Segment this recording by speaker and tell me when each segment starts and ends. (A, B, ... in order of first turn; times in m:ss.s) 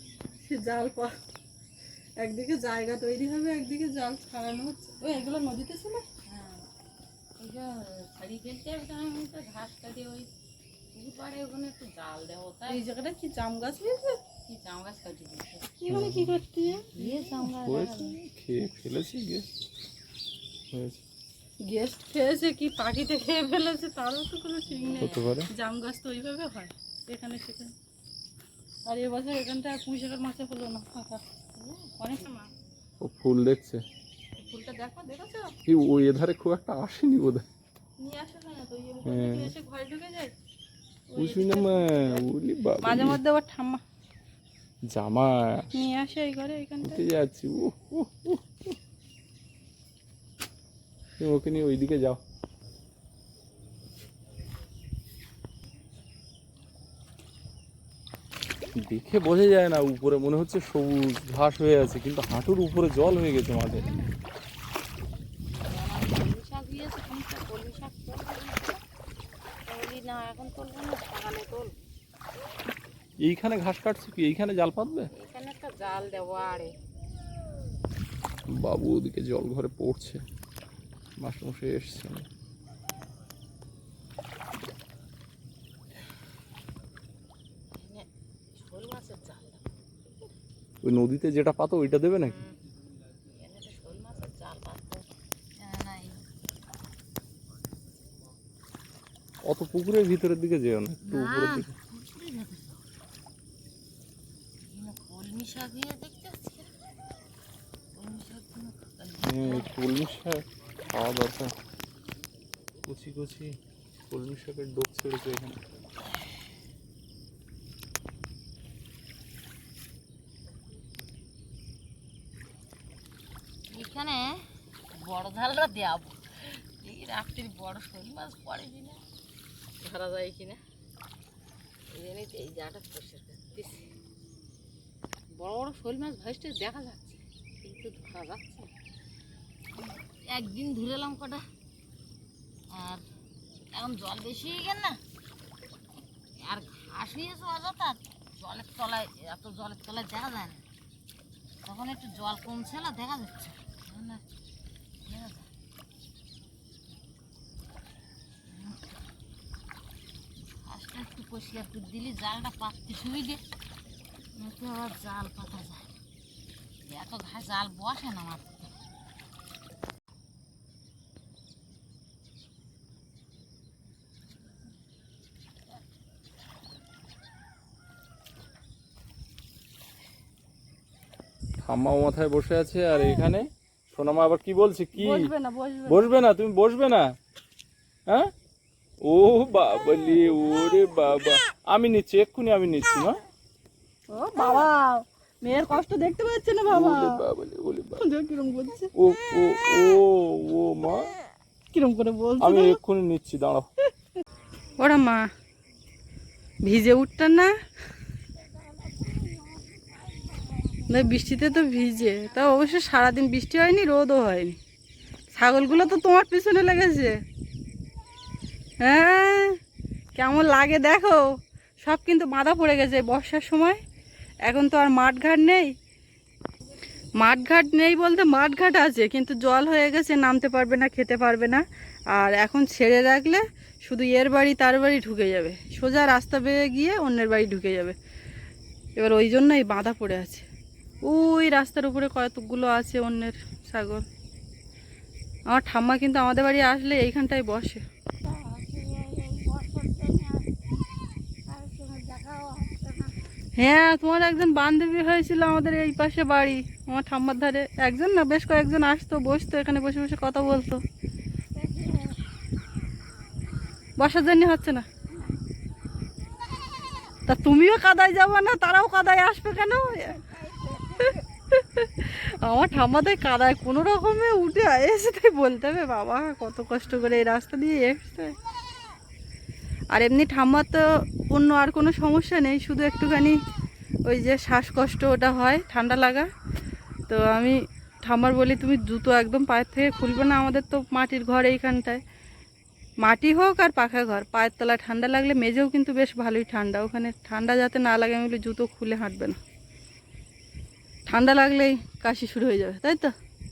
0:00.4-0:01.1 A
0:02.2-0:06.0 A
0:06.3-0:06.7 B
0:07.4-0:10.3 B
0:10.9-0:12.8 B
0:12.7-0:14.2 A
0:14.5-0:15.7 B
0:15.8-0:17.9 A
0:15.9-0:16.4 C
0:16.9-0:18.1 B
0:17.5-0:19.5 C
0:20.7-0:21.0 C
0:21.6-0:27.7 A
0:24.7-0:25.3 B
0:25.0-0:25.5 C
0:28.9-0:31.2 A
0:31.6-0:31.9 B
0:32.0-0:32.5 A
0:33.0-0:33.8 C
0:34.4-0:35.6 A
0:35.7-0:37.5 C
0:38.0-0:40.3 A
0:39.1-0:39.5 C
0:41.1-0:42.2 A
0:41.2-0:43.2 C
0:42.8-0:43.8 A
0:44.9-0:45.7 C
0:45.7-0:47.0 A
0:46.8-0:48.8 C
0:51.2-0:52.2 C
0:58.8-1:03.8 C
1:03.8-1:04.1 B
1:05.6-1:08.8 B
1:09.7-1:11.7 B
1:13.2-1:15.1 C
1:15.1-1:16.7 B
1:18.5-1:20.2 C
1:21.2-1:22.3 C
1:27.7-1:30.3 B
1:30.8-1:32.4 C
1:32.2-1:32.6 B
1:33.3-1:35.0 B
1:35.6-1:36.2 B
1:39.4-1:41.7 C
1:41.1-1:42.8 B
1:44.6-1:46.7 B
1:47.9-1:49.7 B
1:49.2-1:51.5 C
1:52.8-1:53.6 C
1:54.1-1:55.6 C
2:03.7-2:04.4 B
2:04.9-2:09.0 B
2:09.8-2:10.6 B
2:11.9-2:13.9 B
2:15.4-2:18.7 B
2:19.8-2:21.4 B
2:22.7-2:23.0 B
2:23.7-2:25.0 B
2:26.4-2:30.6 B
2:31.6-2:34.2 B
2:35.1-2:35.5 B
2:38.4-2:38.9 B
2:40.6-2:43.4 B
2:44.4-2:45.9 B
2:46.9-2:48.7 B
3:01.6-3:05.3 C
3:05.0-3:06.2 A
3:05.9-3:07.2 C
3:09.0-3:13.2 C
3:14.1-3:17.2 A
3:16.7-3:18.0 C
3:18.0-3:18.9 A
3:19.0-3:21.1 C
3:21.7-3:22.8 A
3:22.4-3:23.7 C
3:24.8-3:25.3 A
3:26.6-3:27.5 A
3:28.7-3:30.6 B
3:30.9-3:34.6 A
3:35.4-3:37.2 A
3:38.8-3:39.6 A
3:40.2-3:43.8 A
3:44.5-3:45.7 A
3:47.2-3:58.0 A
3:59.0-4:00.5 A
4:01.0-4:04.0 A
4:05.5-4:07.8 A
4:08.2-4:10.5 B
4:11.5-4:13.1 B
4:13.6-4:20.8 A
4:21.6-4:22.2 B
4:24.0-4:24.8 A
4:27.3-4:30.2 A
4:30.3-4:30.8 B
4:31.0-4:38.4 A
4:39.9-4:43.4 A
4:44.1-4:46.3 A
4:47.1-4:52.0 A
4:53.0-4:59.4 A
5:01.1-5:03.1 A